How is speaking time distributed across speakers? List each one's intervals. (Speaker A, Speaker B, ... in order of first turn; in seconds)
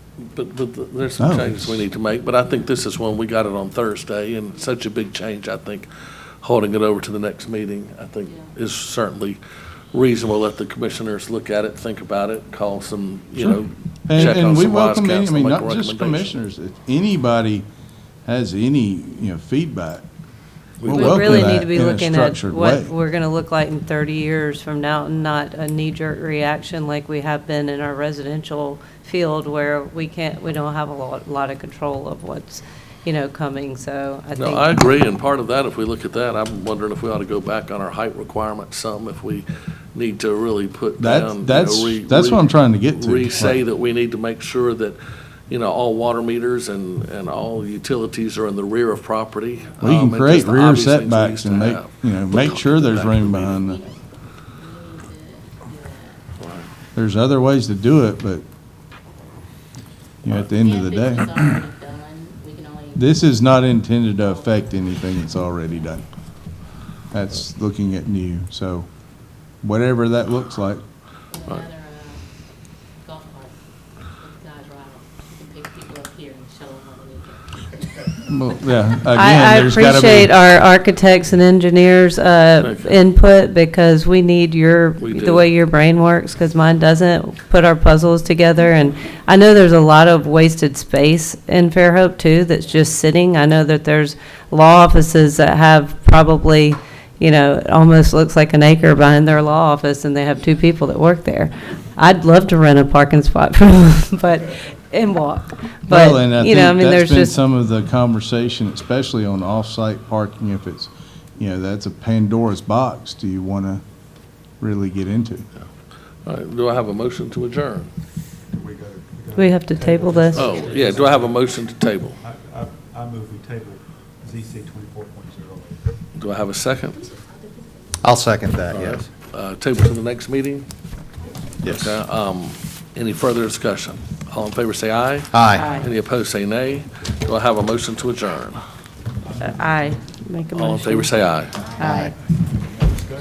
Speaker A: 0.2-5.9, 6.4-9.4, 9.9-16.3, 20.8-21.5, 34.4-45.0, 45.5-53.6, 56.4-56.7, 82.6-83.0, 85.0-85.5, 116.3-117.9, 120.3-122.2, 126.2-127.0, 128.7-130.7, 131.6-138.6, 140.5-141.7
Speaker B: 1.2-1.8, 13.4-17.7, 18.2-20.1, 20.9-22.9, 41.0-43.6, 49.8-53.8, 56.9-58.4, 60.2-61.6, 63.0-66.1, 67.1-68.9, 69.5-70.8, 78.2-80.3, 105.9-113.8, 114.6-115.5
Speaker C: 8.2-8.5, 49.5-49.8, 53.4-56.3, 60.4-63.0, 64.2-64.7, 71.3-77.8, 127.0-127.9
Speaker D: 20.9-34.8, 79.1-107.4, 119.4-120.7, 135.6-135.9, 139.4-141.1, 141.8-142.1
Speaker E: 118.5-121.5, 122.2-125.8
Speaker F: 128.0-129.1, 131.6-131.9, 135.3-135.7, 141.8-142.1